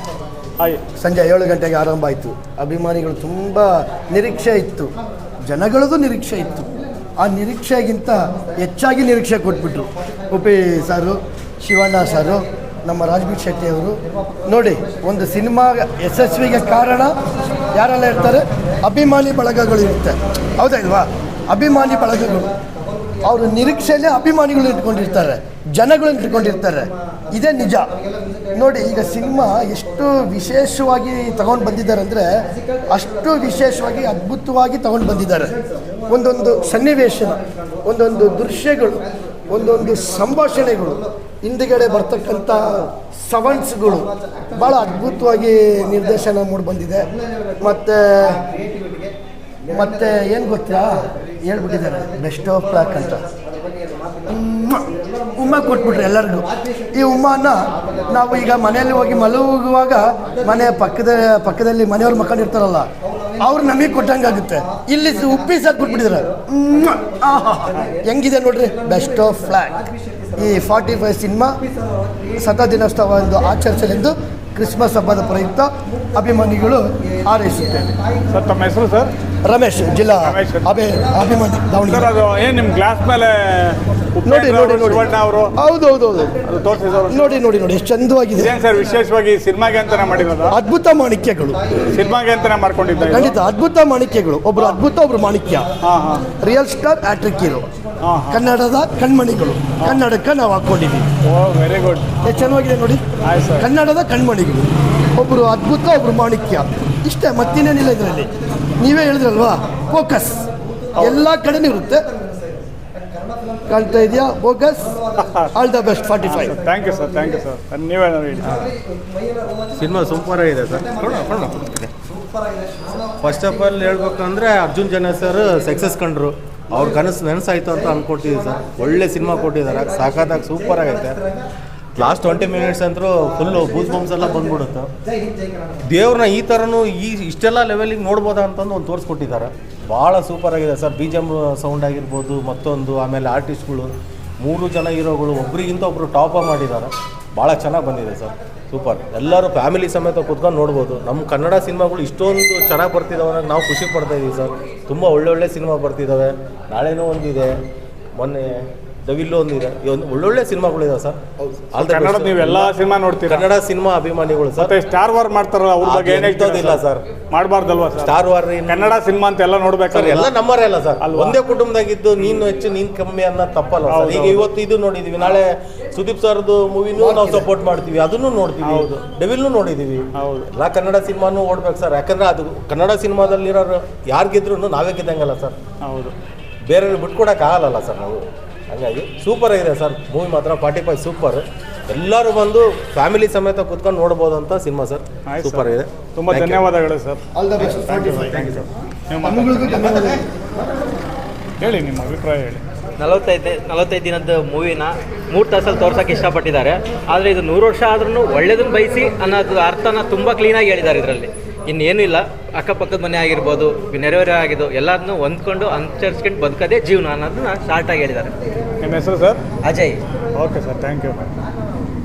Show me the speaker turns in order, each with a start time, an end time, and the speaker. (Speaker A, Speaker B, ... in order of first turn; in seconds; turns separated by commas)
Speaker A: 1.0-4.9, Speaker A: 5.5-6.7, Speaker A: 7.2-17.1, Speaker A: 17.7-22.5, Speaker A: 23.2-27.9, Speaker A: 28.5-32.2, Speaker A: 32.9-35.5, Speaker A: 36.1-47.1, Speaker A: 47.6-48.4, Speaker A: 49.7-53.3, Speaker A: 54.2-62.9, Speaker A: 63.4-71.6, Speaker A: 72.3-77.9, Speaker B: 78.3-79.1, Speaker A: 79.5-82.1, Speaker B: 80.1-80.7, Speaker B: 81.8-85.5, Speaker A: 84.2-86.4, Speaker B: 86.4-87.4, Speaker A: 87.1-88.5, Speaker B: 88.3-90.6, Speaker A: 90.5-91.6, Speaker B: 91.9-93.4, Speaker A: 93.0-95.7, Speaker B: 94.5-94.8, Speaker B: 95.8-96.3, Speaker A: 96.3-97.7, Speaker B: 98.0-98.5, Speaker A: 98.3-101.1, Speaker B: 101.2-102.1, Speaker A: 102.2-103.0, Speaker B: 103.2-103.7, Speaker A: 103.6-112.0, Speaker A: 113.7-114.9, Speaker B: 115.2-115.5, Speaker A: 115.5-116.6, Speaker B: 116.2-118.6, Speaker C: 118.4-118.7, Speaker C: 119.7-121.9, Speaker C: 123.2-131.2, Speaker C: 131.9-134.9, Speaker C: 135.8-157.5, Speaker C: 158.2-158.5, Speaker C: 159.1-161.2, Speaker C: 161.7-162.7, Speaker B: 161.8-163.4, Speaker C: 163.2-164.7, Speaker B: 164.6-170.3, Speaker C: 165.8-167.0, Speaker C: 168.0-168.9, Speaker C: 169.9-185.6, Speaker B: 171.0-171.4, Speaker B: 173.9-174.5, Speaker B: 178.6-179.0, Speaker B: 180.2-180.5, Speaker B: 185.8-186.1, Speaker C: 186.7-188.2, Speaker C: 188.7-196.7, Speaker B: 195.3-199.9, Speaker A: 197.3-198.4, Speaker C: 197.6-198.7, Speaker A: 199.2-200.2, Speaker B: 201.6-202.6, Speaker D: 203.0-218.3, Speaker B: 218.8-219.4, Speaker D: 219.6-220.0, Speaker B: 220.3-221.3